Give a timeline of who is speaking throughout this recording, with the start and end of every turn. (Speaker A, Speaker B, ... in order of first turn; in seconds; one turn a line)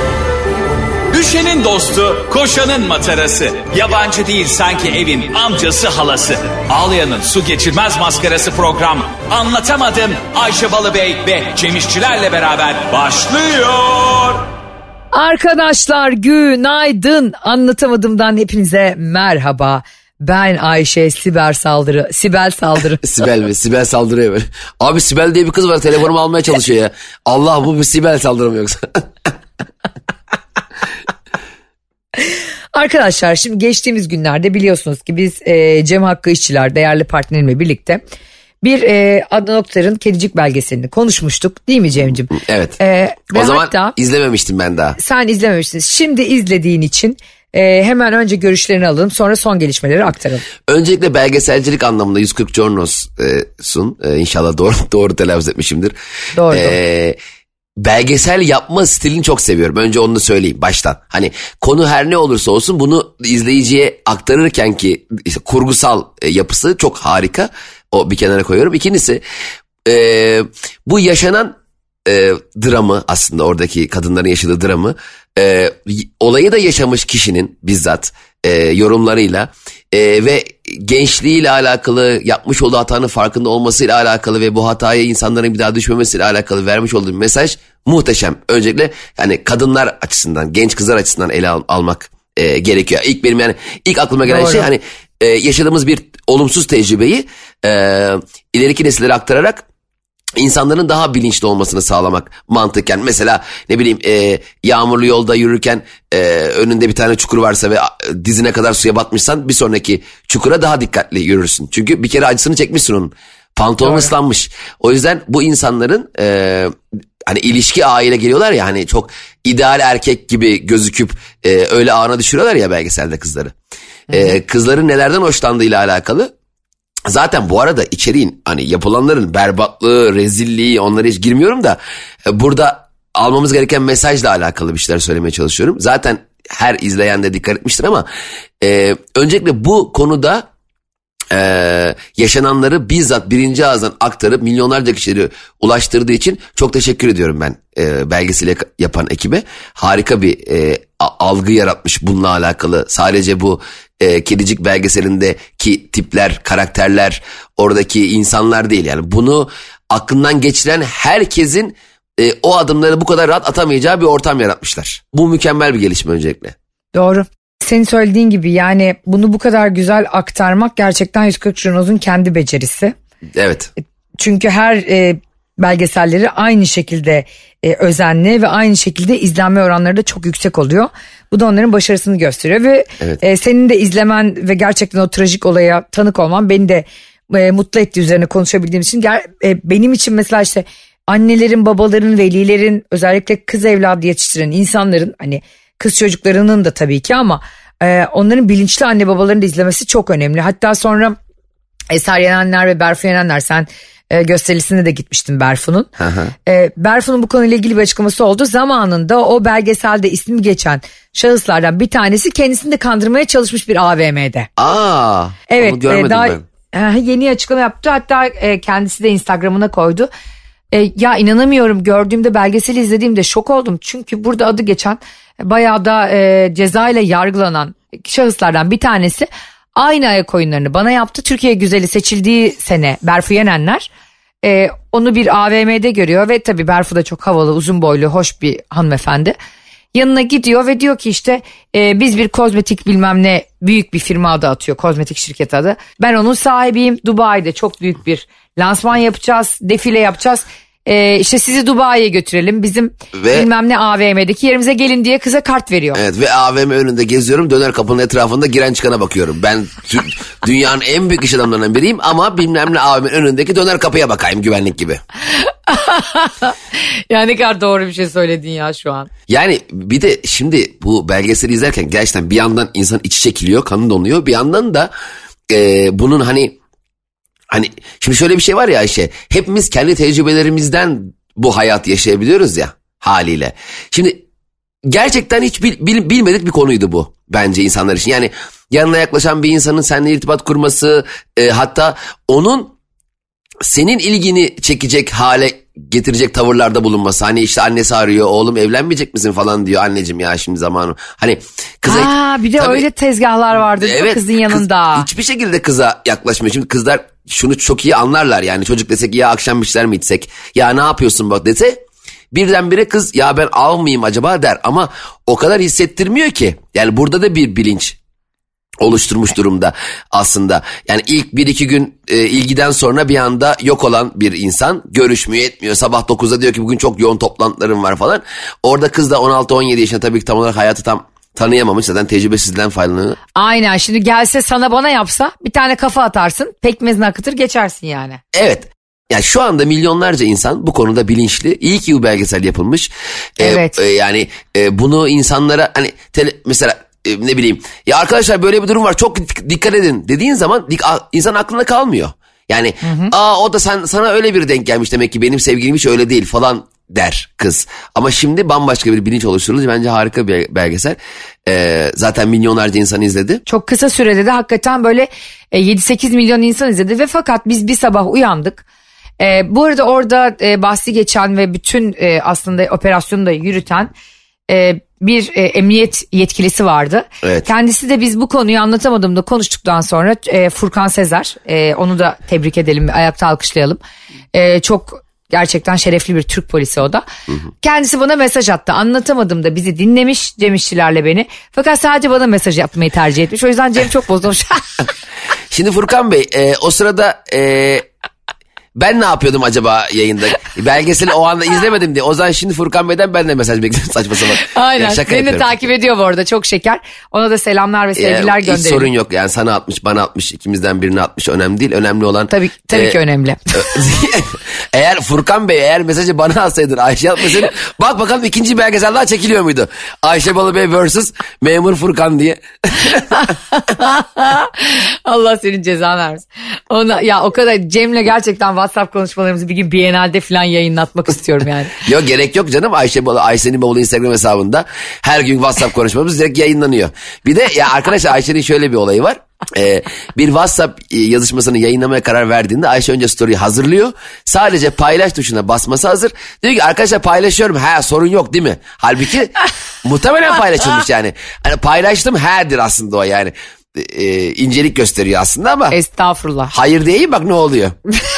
Speaker A: 1.1-14.5
Speaker B: 15.1-23.0
Speaker C: 23.0-29.3
Speaker B: 32.2-38.0
Speaker B: 38.6-44.0
Speaker C: 42.3-42.8
Speaker C: 43.3-45.0
Speaker B: 45.0-50.5
Speaker C: 50.7-55.9
Speaker B: 56.4-56.8
Speaker C: 56.5-57.2
Speaker C: 57.8-69.2
Speaker C: 69.8-99.7
Speaker B: 94.3-94.7
Speaker C: 100.4-116.7
Speaker B: 113.8-114.1
Speaker C: 117.3-123.5
Speaker C: 124.1-126.3
Speaker C: 127.1-138.1
Speaker C: 138.6-140.5
Speaker C: 141.3-166.6
Speaker B: 166.9-172.9
Speaker C: 173.4-173.7
Speaker B: 174.2-201.2
Speaker B: 201.9-205.9
Speaker C: 206.0-206.3
Speaker B: 206.5-214.5
Speaker C: 214.6-216.4
Speaker B: 215.5-220.1
Speaker B: 220.7-233.9
Speaker B: 234.4-239.4
Speaker B: 239.9-256.0
Speaker C: 253.1-253.5
Speaker C: 255.9-265.0
Speaker B: 265.4-269.1
Speaker C: 269.3-274.9
Speaker C: 275.5-276.6
Speaker C: 277.5-284.2
Speaker C: 284.9-292.7
Speaker C: 293.6-302.9
Speaker B: 301.9-305.1
Speaker C: 303.8-318.0
Speaker C: 318.8-333.2
Speaker B: 333.4-338.2
Speaker C: 338.3-363.4
Speaker B: 343.4-343.8
Speaker B: 352.8-353.1
Speaker B: 363.5-368.6
Speaker B: 369.2-373.9
Speaker B: 374.5-383.8
Speaker C: 377.2-377.5
Speaker B: 384.3-387.0
Speaker B: 387.6-394.8
Speaker C: 395.5-397.9
Speaker C: 398.8-405.6
Speaker B: 404.4-408.9
Speaker C: 408.0-413.0
Speaker B: 412.3-413.8
Speaker C: 413.5-423.2
Speaker B: 422.9-431.8
Speaker C: 431.8-455.8
Speaker B: 455.7-456.5
Speaker C: 456.5-457.8